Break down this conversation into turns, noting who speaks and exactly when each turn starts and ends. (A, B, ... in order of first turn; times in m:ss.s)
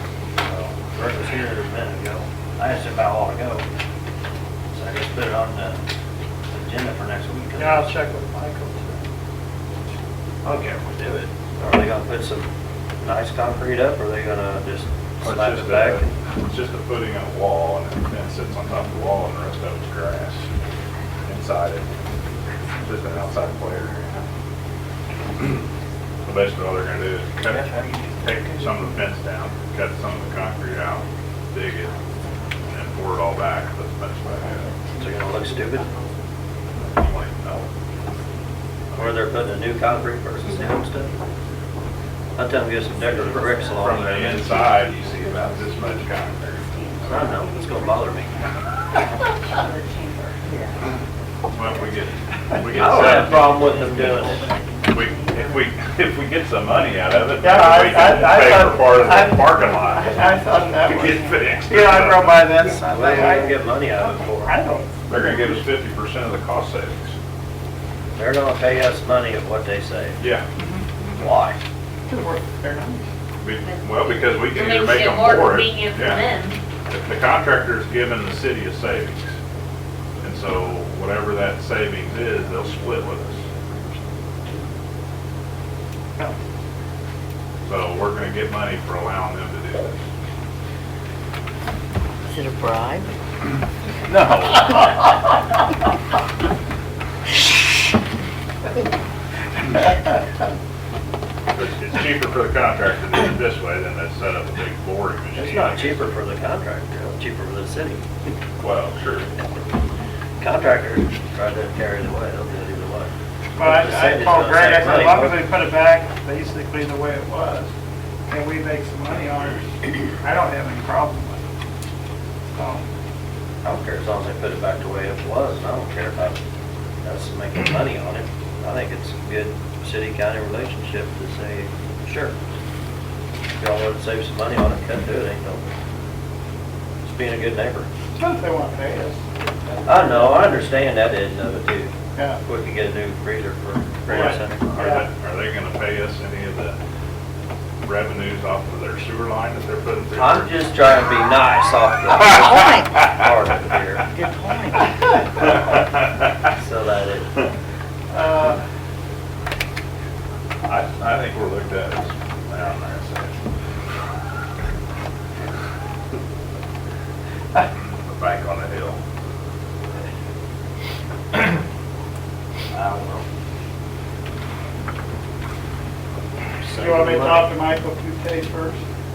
0:00.4-0:03.7 A
0:04.7-0:05.8 A
0:06.5-0:08.0 A
0:07.6-0:09.0 B
0:10.4-0:12.5 A
0:13.0-0:16.1 A
0:15.2-0:20.5 C
0:21.3-0:21.9 C
0:22.8-0:24.2 C
0:26.2-0:32.0 C
0:32.6-0:34.7 C
0:35.0-0:35.9 A
0:37.0-0:37.7 C
0:39.0-0:41.1 A
0:42.4-0:44.4 A
0:43.8-0:46.8 C
0:47.0-0:48.4 A
0:51.5-0:53.6 C
0:52.7-0:54.5 A
0:54.9-1:00.1 C
0:57.4-1:03.6 B
1:00.8-1:02.6 C
1:02.8-1:04.6 A
1:04.4-1:05.0 B
1:05.1-1:07.2 C
1:08.1-1:10.2 A
1:10.2-1:10.4 C
1:10.6-1:10.8 B
1:11.2-1:11.6 A
1:12.1-1:13.0 B
1:13.4-1:16.3 C
1:14.4-1:16.6 D
1:16.9-1:19.3 C
1:20.2-1:23.5 C
1:27.6-1:30.0 C
1:32.3-1:33.1 E
1:34.0-1:34.8 C
1:41.5-1:46.0 C
1:45.3-1:48.0 A
1:48.6-1:49.3 C
1:50.4-1:55.4 A
1:53.5-1:57.7 B
1:58.3-2:01.4 B
2:02.6-2:02.8 B
2:03.6-2:06.4 A
2:07.0-2:12.3 A
2:13.6-2:15.7 A
2:17.0-2:17.9 A
2:18.2-2:20.4 B
2:19.8-2:24.8 A
2:24.1-2:26.8 C
2:24.8-2:25.0 B
2:27.8-2:30.5 C
2:30.2-2:34.1 A
2:32.3-2:32.9 E
2:34.1-2:34.8 E
2:35.7-2:36.0 C
2:36.4-2:37.4 A
2:38.1-2:38.6 B
2:40.6-2:43.4 C
2:48.0-2:49.0 C
2:56.6-2:57.5 C
2:56.7-2:58.8 B